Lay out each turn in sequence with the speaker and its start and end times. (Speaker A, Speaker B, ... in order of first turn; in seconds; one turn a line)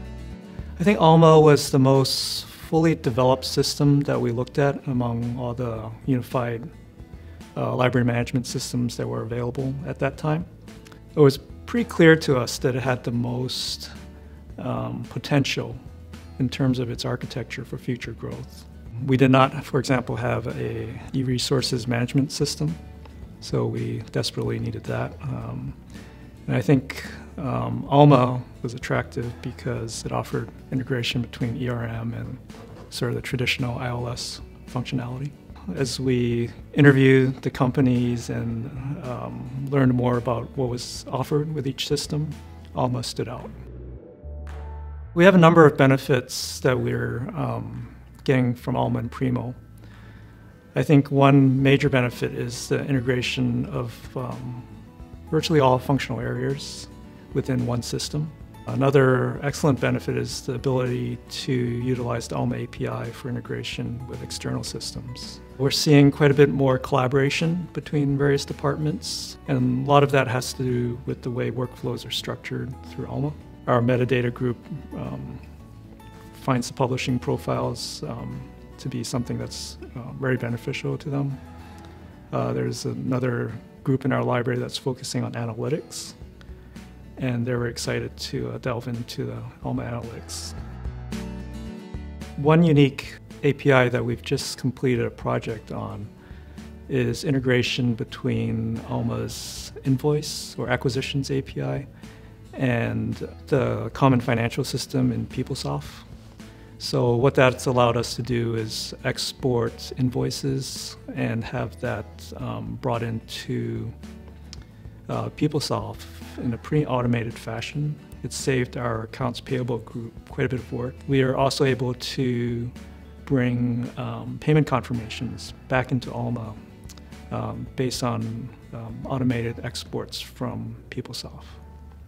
Speaker A: 0.8-6.7
Speaker A: 7.5-10.5
Speaker A: 11.1-13.9
Speaker A: 14.6-15.8
Speaker A: 16.4-22.8
Speaker A: 23.4-25.8
Speaker A: 26.4-43.5
Speaker A: 45.1-49.6
Speaker A: 50.7-54.7
Speaker A: 55.3-75.4
Speaker A: 76.3-81.4
Speaker A: 82.3-86.2
Speaker A: 87.2-90.5
Speaker A: 92.4-96.1
Speaker A: 96.9-101.9
Speaker A: 102.5-106.1
Speaker A: 106.8-113.9
Speaker A: 115.1-122.7
Speaker A: 123.2-126.6
Speaker A: 127.3-131.6